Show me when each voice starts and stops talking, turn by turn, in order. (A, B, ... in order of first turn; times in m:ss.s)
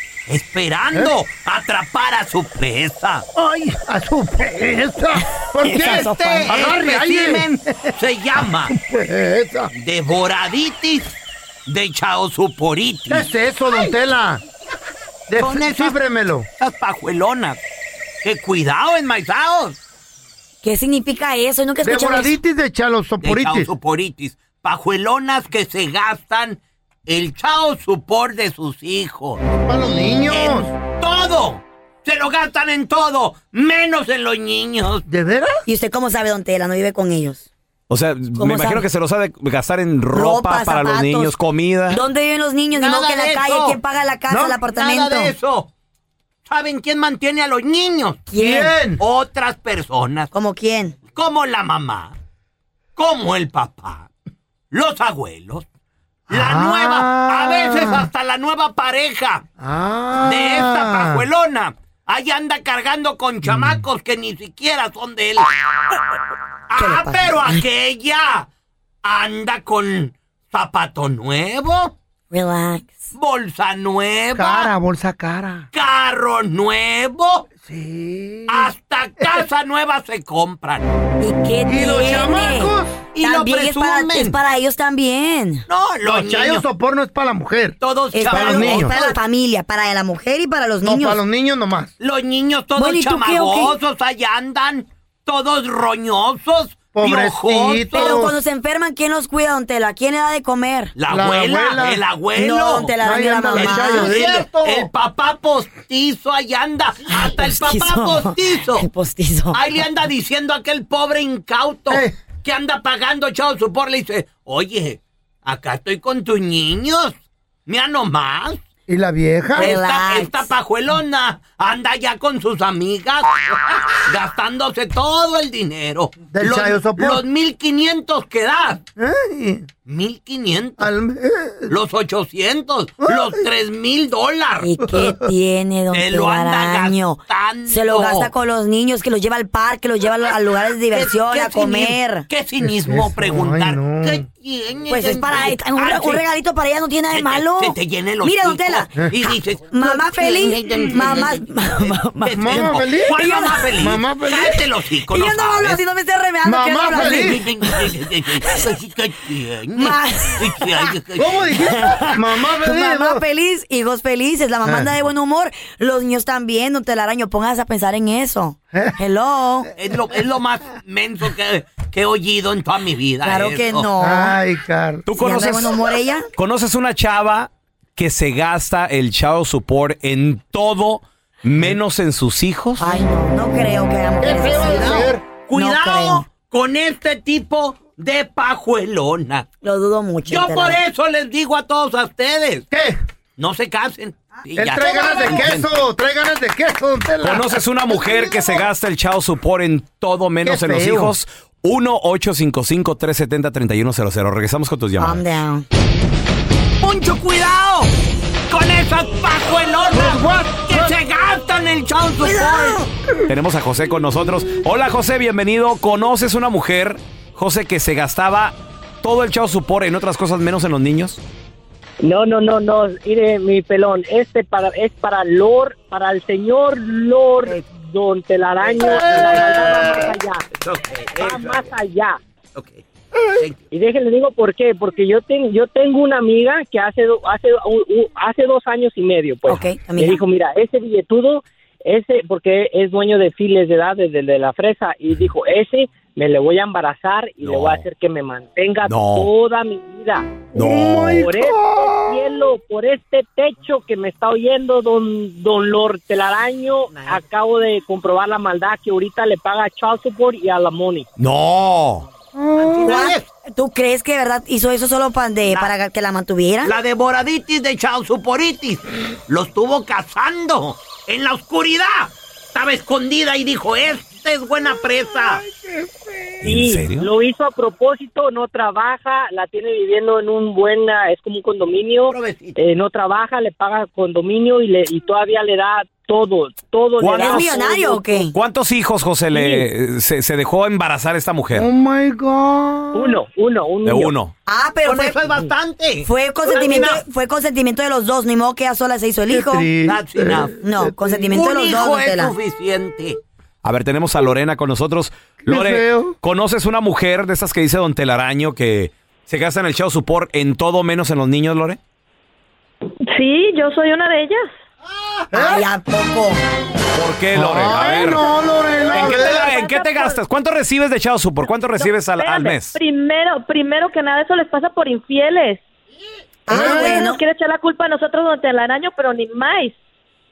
0:00.3-0:03.2 A
0:03.4-0:07.9 B
0:05.6-0:06.5 C
0:05.6-0:08.8 A
0:08.7-0:09.7 B
0:09.7-0:11.2 A
0:11.7-0:13.3 A
0:13.1-0:14.4 B
0:15.3-0:16.5 B
0:15.4-0:16.0 A
0:16.6-0:17.6 A
0:18.2-0:19.8 A
0:20.6-0:22.3 C
0:21.8-0:23.7 B
0:23.2-0:35.0 A
0:29.6-0:30.7 B
0:35.1-0:35.6 B
0:35.7-0:37.5 C
0:37.9-0:42.0 D
0:38.4-0:38.8 C
0:40.1-0:41.3 C
0:41.9-0:45.3 C
0:42.7-0:43.8 A
0:44.3-0:44.6 B
0:44.7-0:45.7 A
0:46.5-0:50.3 A
0:48.3-0:48.7 C
0:48.4-0:49.0 B
0:50.3-0:51.0 C
0:51.1-0:52.1 A
0:53.0-0:54.1 A
0:54.7-0:55.6 A
0:56.3-0:58.1 B
0:56.3-0:59.4 A
0:59.6-1:01.2 B
1:00.2-1:05.5 A
1:03.5-1:03.8 B
1:06.7-1:08.5 A
1:06.8-1:07.6 C
1:09.0-1:11.9 A
1:12.3-1:13.1 C
1:13.1-1:14.7 A
1:14.4-1:15.7 B
1:15.7-1:17.5 A
1:17.6-1:19.5 B
1:18.5-1:20.9 A
1:21.2-1:25.7 C
1:21.7-1:23.0 B
1:23.1-1:24.4 A
1:25.7-1:26.6 A
1:26.0-1:27.8 B
1:27.8-1:29.2 A
1:28.1-1:31.2 C
1:28.3-1:29.0 B
1:30.8-1:31.9 B
1:32.0-1:38.2 A
1:32.8-1:33.8 C
1:37.0-1:38.4 B
1:37.9-1:41.0 C
1:41.0-1:43.0 A
1:41.1-1:42.0 B
1:42.4-1:44.2 C
1:43.0-1:44.9 B
1:43.5-1:48.9 A
1:47.1-1:49.8 C
1:49.5-1:57.2 A
1:51.9-1:52.2 B
1:57.7-1:58.6 A
1:58.9-1:59.8 B
1:59.6-2:08.8 A
1:59.6-2:00.5 C
2:06.3-2:07.2 B
2:09.0-2:09.7 B
2:09.8-2:10.9 A
2:10.8-2:11.7 B
2:11.7-2:14.7 A
2:13.0-2:13.4 B
2:14.6-2:22.3 C
2:14.8-2:15.3 B
2:15.9-2:18.3 A
2:20.9-2:26.2 A
2:22.6-2:24.3 B
2:24.9-2:33.7 C
2:27.1-2:35.8 A
2:29.0-2:29.2 B
2:32.3-2:33.2 B
2:33.8-2:34.6 B
2:35.1-2:38.7 C
2:36.4-2:37.4 B
2:36.9-2:42.1 A
2:39.8-2:40.6 C
2:41.2-2:43.2 B
2:42.6-2:49.7 C
2:44.6-2:44.9 B
2:49.8-2:53.9 A
2:53.2-2:54.4 C
2:54.0-2:55.0 B
2:55.1-2:55.8 D
2:55.1-2:56.3 C
2:56.4-3:03.0 D
3:02.8-3:06.3 C
3:04.2-3:05.2 B
3:04.7-3:09.5 A
3:09.6-3:10.8 C
3:10.3-3:12.7 A
3:12.7-3:13.0 B
3:13.4-3:15.7 A
3:14.6-3:18.6 B
3:17.2-3:25.2 D
3:20.4-3:21.2 B
3:25.0-3:25.7 C
3:26.8-3:27.9 A
3:28.5-3:32.8 A
3:29.9-3:31.0 B
3:32.2-3:32.9 C
3:33.3-3:41.2 D
3:42.0-3:50.4 E
3:48.6-3:51.7 A
3:51.2-3:52.2 E
3:52.6-3:52.8 A
3:53.4-3:53.6 A
3:53.7-4:10.5 E
3:59.5-4:00.2 C
4:07.4-4:07.8 D
4:08.9-4:09.3 D
4:10.5-4:12.1 B
4:11.1-4:21.1 E
4:16.9-4:17.2 A
4:21.2-4:22.0 D
4:22.4-4:23.1 B
4:22.6-4:23.3 A
4:22.8-4:26.8 C
4:25.4-4:25.7 A
4:26.6-4:35.4 A
4:35.1-4:35.7 B
4:36.4-4:37.1 D
4:36.4-4:48.2 E
4:42.1-4:42.6 A
4:47.0-4:47.5 D
4:47.2-4:48.4 C
4:48.3-4:51.7 D
4:49.4-4:49.6 A
4:51.5-4:53.2 B
4:52.9-4:54.2 E
4:53.8-4:54.3 D
4:54.5-4:55.5 C
4:54.8-4:57.0 A
4:56.0-4:59.7 C
4:59.3-5:01.2 B
4:59.8-5:00.6 A
5:00.6-5:02.3 C
5:01.2-5:03.2 A
5:03.6-5:11.8 D
5:05.4-5:06.2 B
5:13.1-5:14.5 F
5:15.3-5:15.7 B
5:15.3-5:16.4 C
5:16.9-5:18.3 D
5:17.3-5:19.5 B
5:18.9-5:20.2 F
5:18.9-5:22.8 D
5:21.8-5:25.6 F
5:26.5-5:27.2 C
5:26.5-5:27.0 B
5:26.5-5:29.8 F